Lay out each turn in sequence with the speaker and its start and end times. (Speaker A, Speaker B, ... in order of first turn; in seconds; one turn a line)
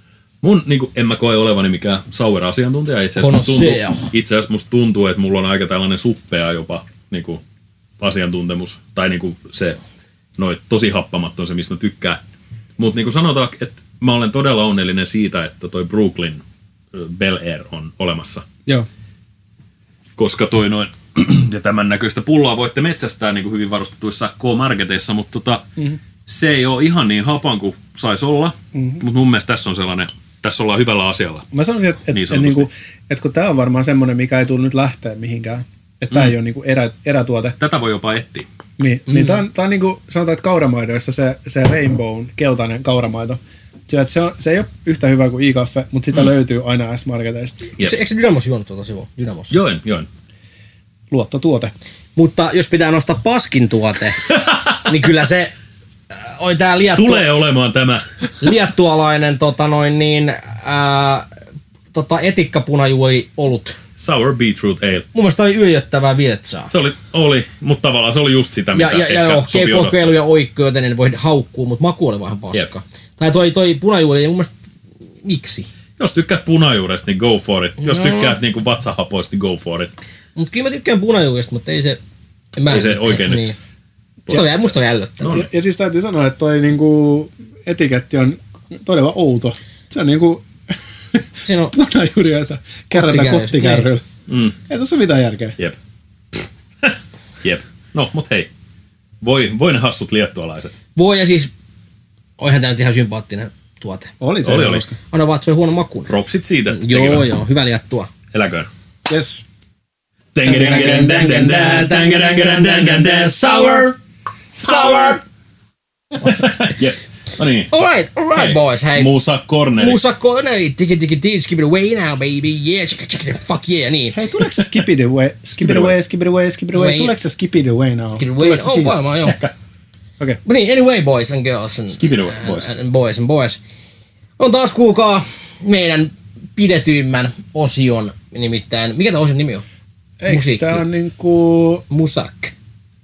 Speaker A: 0.4-7.4
Speaker B: 3.2-4.1
Speaker A: 8.0-9.8
Speaker A: 10.4-12.2
Speaker A: 12.8-18.4
Speaker A: 20.2-25.7
Speaker A: 26.2-31.4
Speaker C: 28.7-29.0
Speaker C: 31.5-37.6
Speaker A: 32.1-32.7
Speaker A: 37.6-38.5
Speaker C: 38.8-47.7
Speaker B: 39.1-39.4
Speaker B: 47.8-49.5
Speaker A: 49.5-50.1
Speaker C: 51.1-51.7
Speaker B: 52.1-55.5
Speaker A: 54.3-54.7
Speaker B: 56.1-57.3
Speaker A: 56.9-58.5
Speaker B: 58.4-61.3
Speaker B: 61.9-63.8
Speaker A: 64.0-65.0
Speaker B: 65.1-66.7
Speaker A: 66.7-70.0
Speaker B: 68.7-74.5
Speaker B: 75.2-75.7
Speaker A: 76.0-79.9
Speaker B: 77.8-78.3
Speaker B: 80.3-82.0
Speaker B: 82.5-83.5
Speaker A: 82.7-83.5
Speaker A: 84.3-84.7
Speaker B: 84.3-85.4
Speaker C: 85.3-91.2
Speaker B: 91.5-91.7
Speaker C: 91.7-94.0
Speaker B: 92.9-93.9
Speaker A: 94.3-94.5
Speaker C: 94.7-95.6
Speaker A: 96.3-98.5
Speaker A: 99.2-100.8
Speaker B: 101.0-101.5
Speaker B: 102.4-104.1
Speaker C: 104.2-105.0
Speaker A: 104.4-104.8
Speaker B: 105.1-106.1
Speaker A: 106.1-107.3
Speaker B: 106.7-108.1
Speaker A: 108.3-108.7
Speaker C: 109.1-109.4
Speaker A: 110.3-113.8
Speaker C: 110.5-111.0
Speaker B: 110.5-113.9
Speaker A: 114.5-115.2
Speaker B: 114.7-115.1
Speaker A: 116.2-117.7
Speaker B: 117.7-119.1
Speaker A: 118.3-120.0
Speaker B: 119.8-124.2
Speaker C: 124.1-129.0
Speaker A: 124.5-124.8
Speaker A: 125.6-126.0
Speaker B: 126.7-127.1
Speaker B: 128.2-129.4
Speaker A: 129.2-129.5
Speaker B: 130.4-133.6
Speaker A: 131.9-132.7
Speaker B: 134.4-139.6
Speaker C: 140.2-141.8
Speaker B: 140.3-140.8
Speaker B: 141.9-142.5